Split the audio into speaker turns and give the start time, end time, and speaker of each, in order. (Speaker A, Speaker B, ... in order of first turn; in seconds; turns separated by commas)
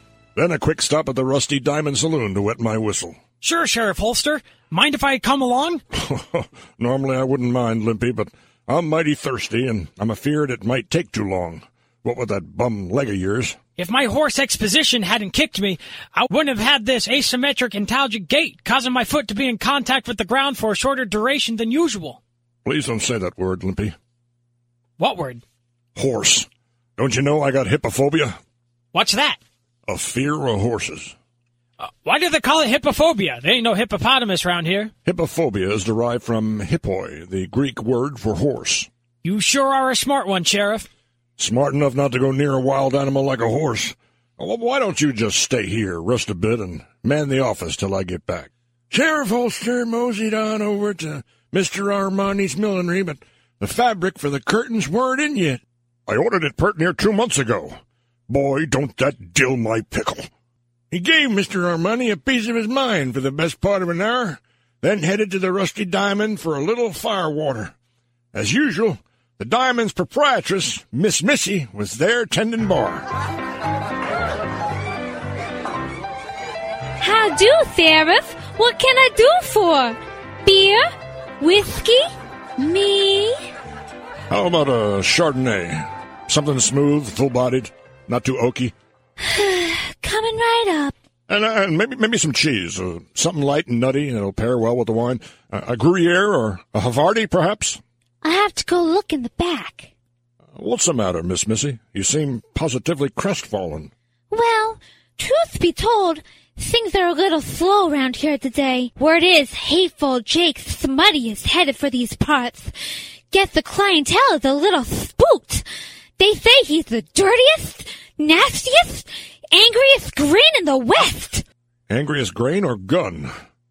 Speaker A: 0.3-3.2, Speaker B: 3.4-5.8, Speaker A: 5.9-13.6, Speaker B: 13.8-22.2, Speaker A: 22.6-23.9, Speaker B: 25.0-25.4, Speaker A: 25.9-28.4, Speaker B: 28.9-29.4, Speaker A: 29.9-31.1, Speaker B: 31.8-34.9, Speaker A: 35.0-38.9, Speaker B: 39.2-40.9, Speaker A: 41.4-57.8, Speaker A: 58.3-60.3, Speaker A: 60.9-67.7, Speaker A: 68.3-73.0, Speaker C: 77.0-80.9, Speaker C: 81.4-82.0, Speaker C: 82.6-83.3, Speaker A: 84.3-88.7, Speaker C: 89.2-90.9, Speaker A: 91.3-97.8, Speaker C: 98.2-99.9, Speaker A: 100.5-103.9, Speaker C: 104.3-112.7, Speaker C: 113.3-115.6, Speaker C: 116.2-121.4, Speaker A: 121.9-123.3